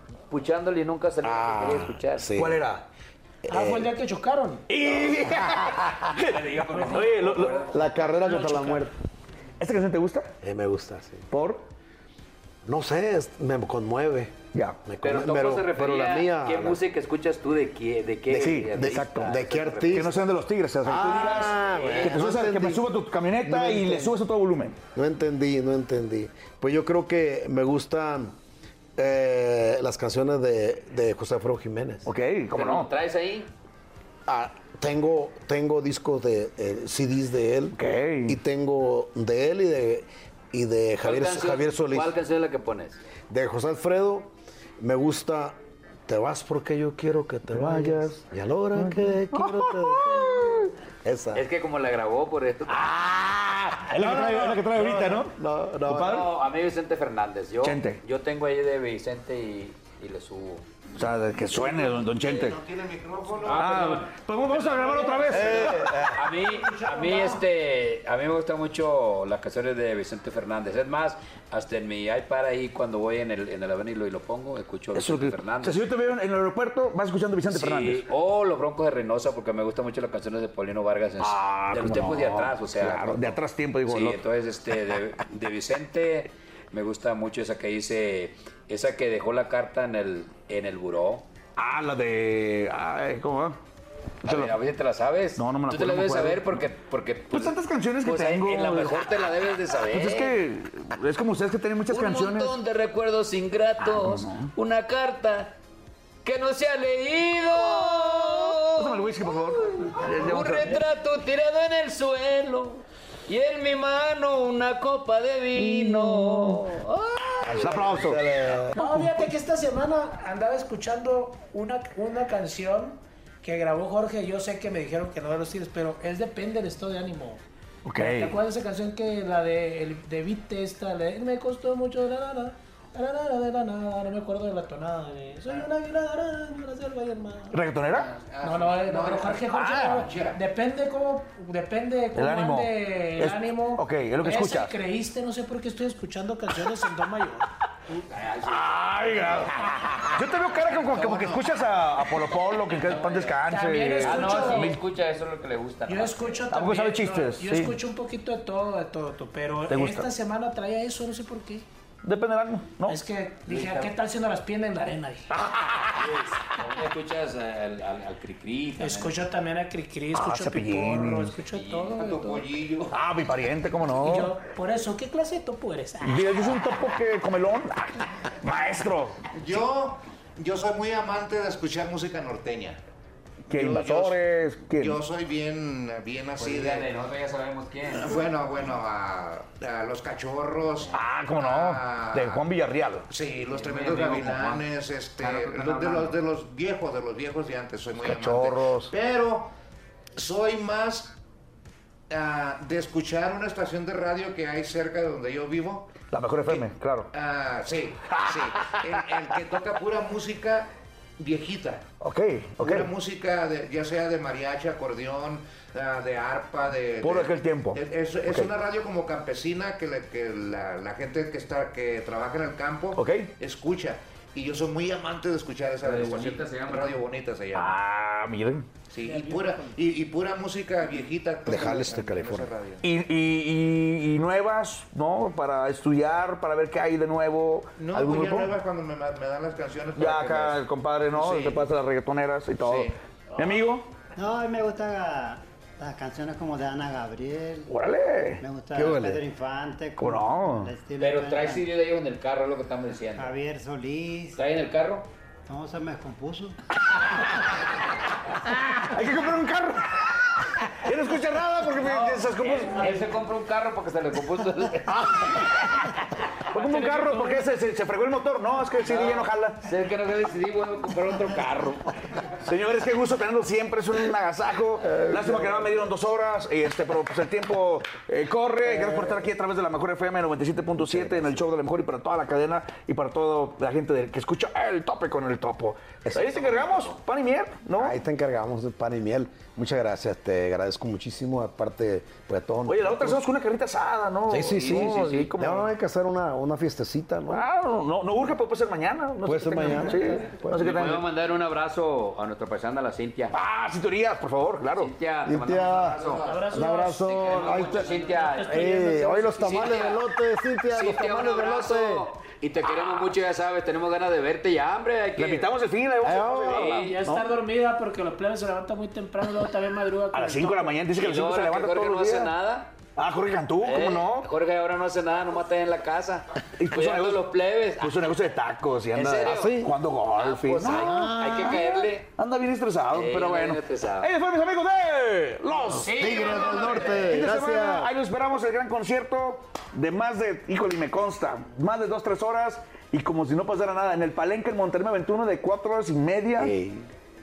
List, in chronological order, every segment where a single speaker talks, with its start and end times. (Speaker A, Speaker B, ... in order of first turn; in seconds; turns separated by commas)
Speaker A: 0.3-2.3, Speaker B: 1.2-2.6, Speaker C: 2.4-2.8, Speaker B: 3.5-3.9, Speaker D: 3.5-4.6, Speaker C: 4.7-7.6, Speaker A: 6.2-8.2, Speaker B: 7.7-8.9, Speaker D: 8.2-8.9, Speaker C: 9.6-10.3, Speaker B: 10.4-11.3, Speaker C: 11.3-11.7, Speaker B: 12.6-14.3, Speaker C: 14.5-14.8, Speaker B: 14.8-16.8, Speaker A: 15.0-20.2, Speaker B: 18.3-20.2, Speaker C: 18.3-19.3, Speaker C: 19.9-24.8, Speaker B: 20.8-22.9, Speaker A: 21.0-22.2, Speaker B: 23.4-24.2, Speaker B: 24.9-28.3, Speaker B: 29.0-32.1, Speaker C: 32.0-32.9, Speaker A: 32.5-33.5, Speaker B: 34.3-42.1, Speaker C: 37.7-38.4, Speaker A: 41.0-43.0, Speaker B: 43.3-45.5, Speaker B: 46.1-51.4, Speaker C: 47.5-48.1, Speaker C: 48.8-50.7, Speaker A: 51.3-52.9, Speaker C: 52.7-55.3, Speaker B: 54.0-56.3, Speaker C: 55.9-56.2, Speaker A: 55.9-60.7, Speaker C: 57.6-58.0, Speaker C: 61.0-62.6, Speaker E: 61.8-63.8, Speaker A: 63.4-75.9, Speaker C: 63.5-65.9, Speaker B: 65.3-66.3, Speaker D: 66.7-67.4, Speaker C: 74.9-78.0, Speaker A: 77.5-91.3, Speaker C: 81.2-84.2, Speaker C: 91.6-93.6, Speaker C: 94.2-94.5, Speaker A: 94.2-100.4, Speaker C: 95.3-96.6, Speaker C: 97.3-99.1, Speaker C: 99.9-102.5, Speaker A: 101.9-105.5, Speaker C: 103.8-104.5, Speaker A: 106.2-117.8, Speaker C: 107.5-110.8, Speaker C: 115.5-116.6, Speaker C: 117.4-118.2, Speaker B: 117.5-118.8, Speaker D: 118.7-127.4, Speaker C: 118.8-119.2, Speaker C: 127.8-128.3, Speaker D: 127.9-137.6, Speaker C: 137.5-138.1, Speaker E: 137.9-140.4, Speaker D: 138.4-147.5, Speaker C: 139.5-140.0, Speaker C: 142.2-144.7, Speaker A: 147.9-153.4, Speaker C: 148.4-154.8, Speaker D: 153.5-154.8, Speaker A: 154.0-156.4, Speaker D: 155.8-161.6, Speaker C: 156.5-157.8, Speaker C: 159.7-160.1, Speaker C: 162.0-163.0, Speaker D: 162.8-165.3, Speaker A: 163.5-163.9, Speaker C: 165.3-166.0, Speaker A: 165.9-169.2, Speaker D: 168.8-172.2, Speaker C: 170.1-171.4, Speaker A: 171.5-172.5, Speaker E: 171.9-172.9, Speaker C: 172.9-174.3, Speaker D: 173.9-176.3, Speaker C: 176.0-179.2, Speaker E: 179.3-182.8, Speaker C: 183.4-185.0, Speaker E: 183.5-186.9, Speaker A: 186.4-188.2, Speaker E: 187.8-192.5, Speaker C: 190.9-193.1, Speaker E: 193.1-199.5, Speaker A: 193.4-194.6, Speaker A: 195.2-196.2, Speaker C: 198.0-198.9, Speaker E: 200.2-201.2, Speaker E: 202.1-211.8, Speaker C: 206.1-207.1, Speaker C: 208.1-209.2, Speaker C: 212.0-212.9, Speaker E: 212.6-227.8, Speaker C: 217.0-218.5, Speaker C: 222.9-223.3, Speaker A: 225.8-227.0, Speaker C: 227.5-228.7, Speaker E: 228.9-232.8, Speaker D: 229.0-229.7, Speaker B: 231.4-232.5, Speaker C: 232.8-238.6, Speaker E: 237.8-241.7, Speaker C: 239.9-243.9, Speaker E: 242.6-242.9, Speaker F: 244.2-247.8, Speaker C: 247.7-248.4, Speaker F: 248.4-251.7, Speaker B: 248.7-249.2, Speaker C: 250.0-250.7, Speaker A: 251.0-253.4, Speaker F: 253.1-254.4, Speaker A: 254.3-255.1, Speaker F: 255.5-256.6, Speaker C: 258.5-262.9, Speaker A: 261.8-265.4, Speaker C: 264.9-269.6, Speaker A: 266.6-267.2, Speaker D: 266.9-267.4, Speaker A: 268.8-272.3, Speaker C: 272.4-288.0, Speaker B: 274.9-275.6, Speaker B: 278.7-279.0, Speaker B: 280.8-281.4, Speaker A: 286.5-286.9, Speaker B: 287.8-293.3, Speaker C: 292.7-295.7, Speaker B: 294.3-297.4, Speaker A: 294.4-295.3, Speaker C: 297.3-301.0, Speaker B: 299.2-300.7, Speaker A: 300.5-303.4, Speaker C: 303.3-304.9, Speaker A: 304.7-306.3, Speaker B: 305.2-306.0, Speaker E: 305.9-306.6, Speaker D: 306.2-309.7, Speaker B: 306.5-307.9, Speaker A: 307.1-310.0, Speaker B: 308.4-312.1, Speaker A: 310.7-315.5, Speaker C: 315.1-317.3, Speaker B: 316.0-316.8, Speaker A: 316.1-317.0, Speaker D: 316.8-320.8, Speaker C: 320.1-322.4, Speaker A: 320.9-322.7, Speaker C: 322.9-324.3, Speaker A: 323.6-328.1, Speaker C: 326.6-346.5, Speaker A: 328.9-332.1, Speaker B: 329.2-329.7, Speaker A: 332.9-334.1, Speaker A: 335.6-337.2, Speaker B: 335.8-337.9, Speaker B: 346.4-346.9